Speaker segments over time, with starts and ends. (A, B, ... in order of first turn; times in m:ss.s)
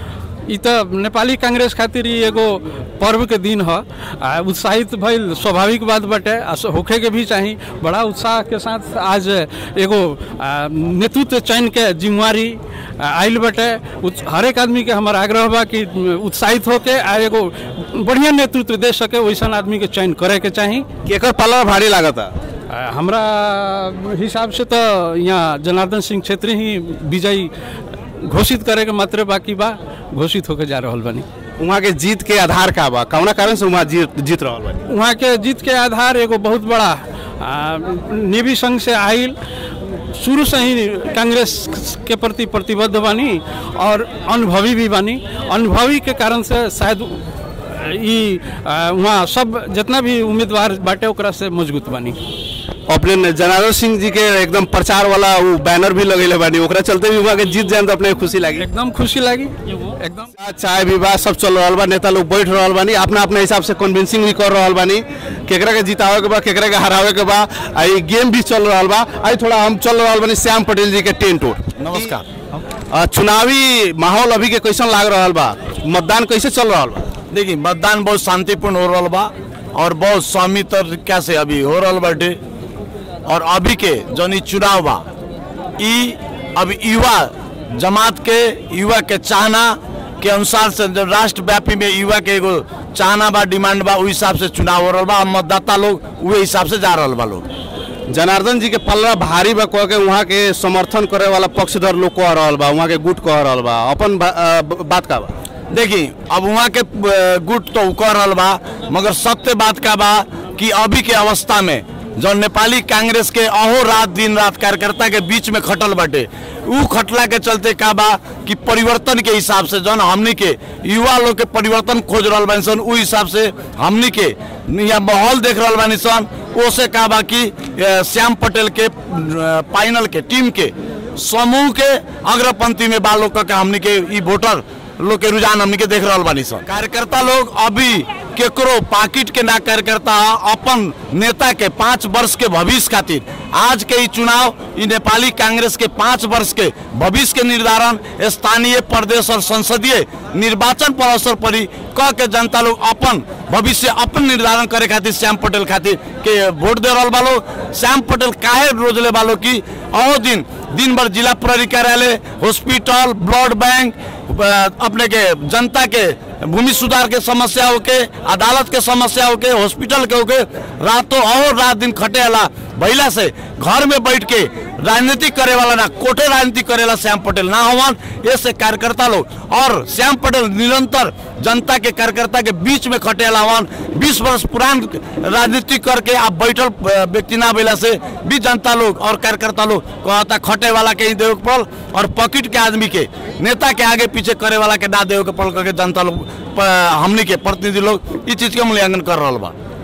0:00.5-0:20.9 A
0:21.0-0:22.3 B
0:22.7-0:27.5 A
0:28.2-0:31.2 A
0:31.6-0:34.8 B
0:34.9-0:39.3 A
0:40.1-0:52.2 A
0:52.9-0:58.6 B
0:58.6-1:00.3 A
1:00.4-1:12.1 B
1:11.8-1:12.2 C
1:12.9-1:17.1 B
1:17.3-1:22.4 C
1:23.2-1:25.0 C
1:25.8-1:37.5 C
1:38.1-1:45.3 B
1:45.7-3:19.5 C